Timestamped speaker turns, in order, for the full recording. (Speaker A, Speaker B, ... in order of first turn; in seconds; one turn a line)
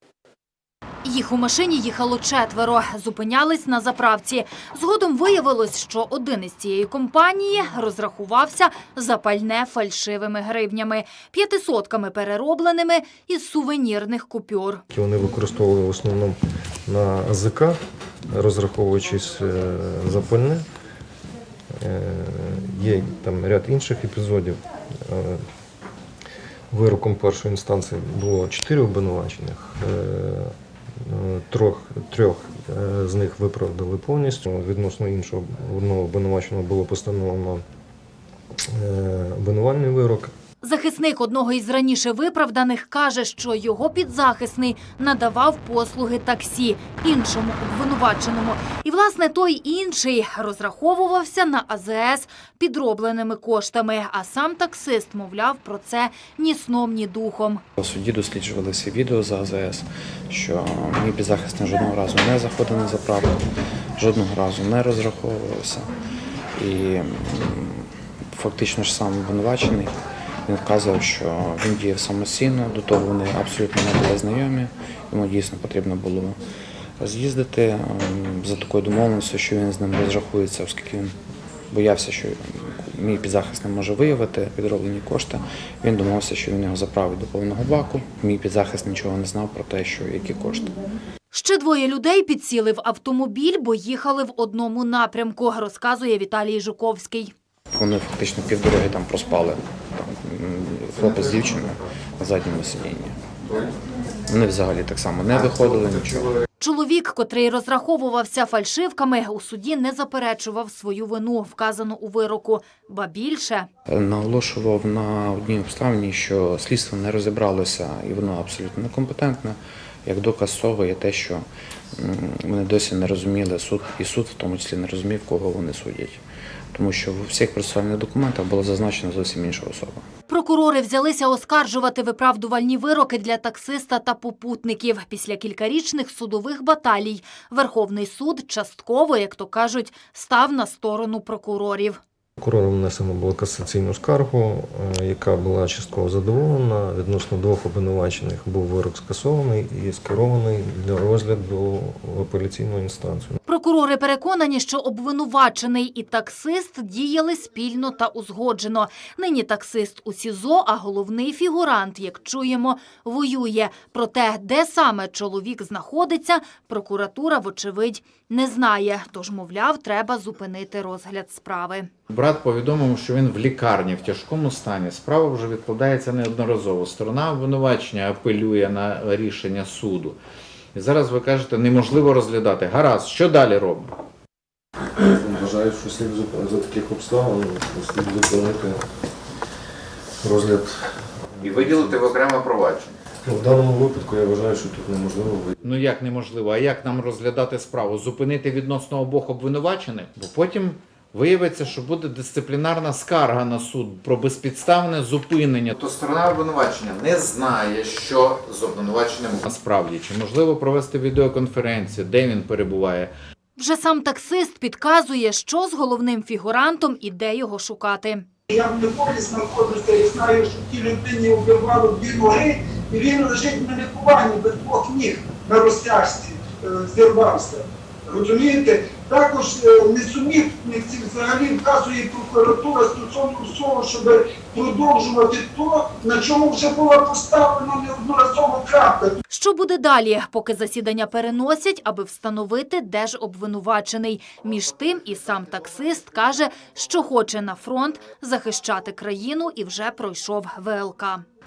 Speaker A: 1.0-14.8
Speaker B: 14.9-17.8
Speaker B: 18.3-20.6
Speaker B: 21.8-25.4
Speaker B: 26.7-30.5
Speaker B: 31.0-37.6
Speaker B: 38.7-40.3
Speaker A: 40.6-57.6
Speaker C: 57.8-63.4
Speaker C: 64.0-65.9
Speaker C: 66.5-69.9
Speaker C: 70.5-76.4
Speaker C: 77.0-81.1
Speaker C: 81.7-90.7
Speaker A: 91.3-97.3
Speaker C: 97.7-103.7
Speaker C: 104.3-106.4
Speaker A: 106.6-113.7
Speaker C: 113.9-121.4
Speaker C: 122.0-126.2
Speaker C: 126.7-130.0
Speaker A: 130.3-142.0
Speaker B: 142.4-153.4
Speaker A: 153.5-171.9
Speaker D: 172.1-180.2
Speaker D: 180.7-183.9
Speaker B: 185.0-188.8
Speaker B: 190.2-191.8
Speaker D: 191.4-193.0
Speaker B: 193.2-195.5
Speaker D: 195.6-213.1
Speaker A: 213.6-218.2
Speaker E: 218.5-239.2
Speaker A: 239.3-251.2